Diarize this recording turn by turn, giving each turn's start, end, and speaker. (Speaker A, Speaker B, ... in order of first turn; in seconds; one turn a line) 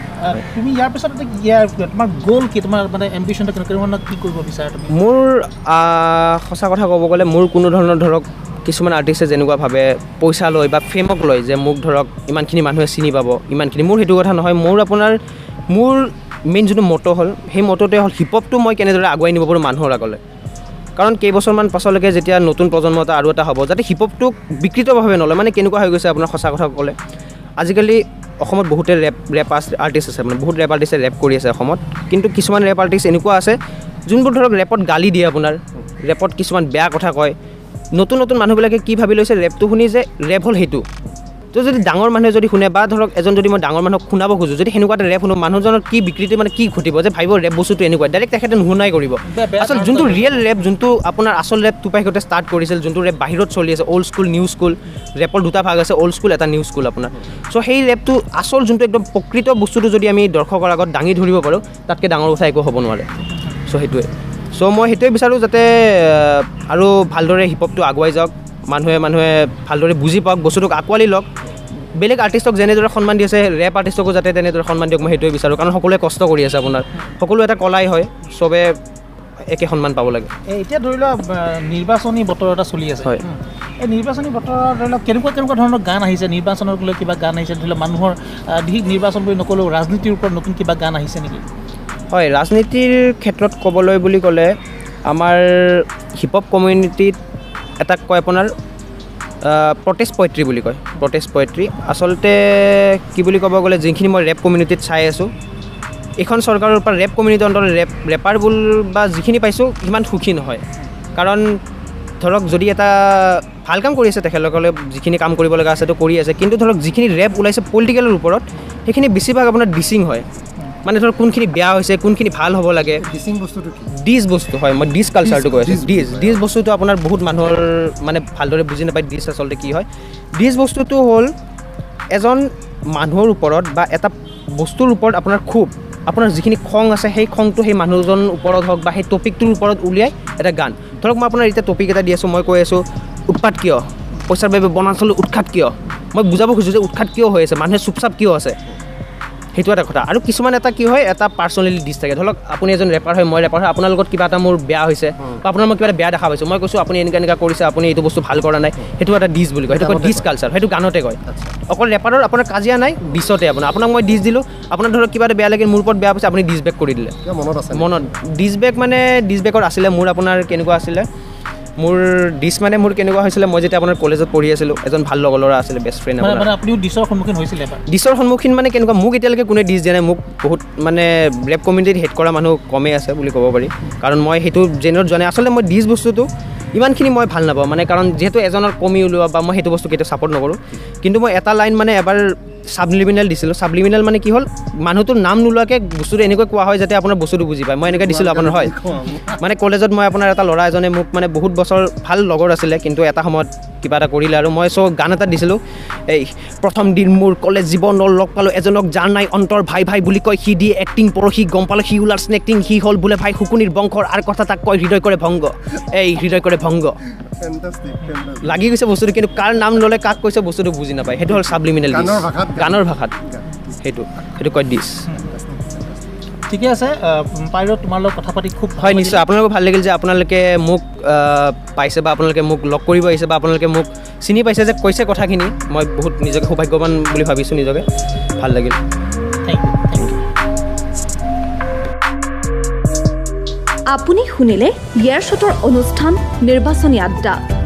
Speaker A: 0.2-4.9
Speaker B: 4.9-15.2
Speaker B: 15.7-20.2
Speaker B: 21.0-26.9
Speaker B: 27.6-33.6
Speaker B: 34.1-37.4
Speaker B: 38.0-40.9
Speaker B: 41.5-63.1
Speaker A: 49.3-50.5
Speaker B: 63.7-71.3
Speaker B: 72.0-78.7
Speaker B: 79.5-80.3
Speaker A: 80.5-91.4
Speaker B: 92.1-94.5
Speaker B: 95.1-97.2
Speaker B: 97.8-98.5
Speaker B: 99.5-105.3
Speaker B: 106.2-110.6
Speaker B: 111.2-111.6
Speaker B: 112.2-120.3
Speaker B: 120.8-123.0
Speaker C: 123.0-123.9
Speaker B: 123.9-131.3
Speaker C: 125.2-126.4
Speaker B: 132.1-148.6
Speaker B: 149.6-167.2
Speaker C: 159.7-160.3
Speaker C: 161.2-161.6
Speaker C: 167.2-168.2
Speaker B: 167.7-171.1
Speaker B: 171.8-176.5
Speaker A: 176.2-177.8
Speaker B: 177.9-192.2
Speaker B: 192.7-217.0
Speaker C: 197.9-199.3
Speaker C: 217.1-218.6
Speaker B: 218.4-223.1
Speaker C: 221.3-223.8
Speaker B: 223.8-225.1
Speaker C: 225.2-226.1
Speaker A: 226.5-229.2
Speaker B: 228.8-237.8
Speaker B: 238.4-238.8
Speaker A: 239.5-240.2
Speaker D: 243.9-247.4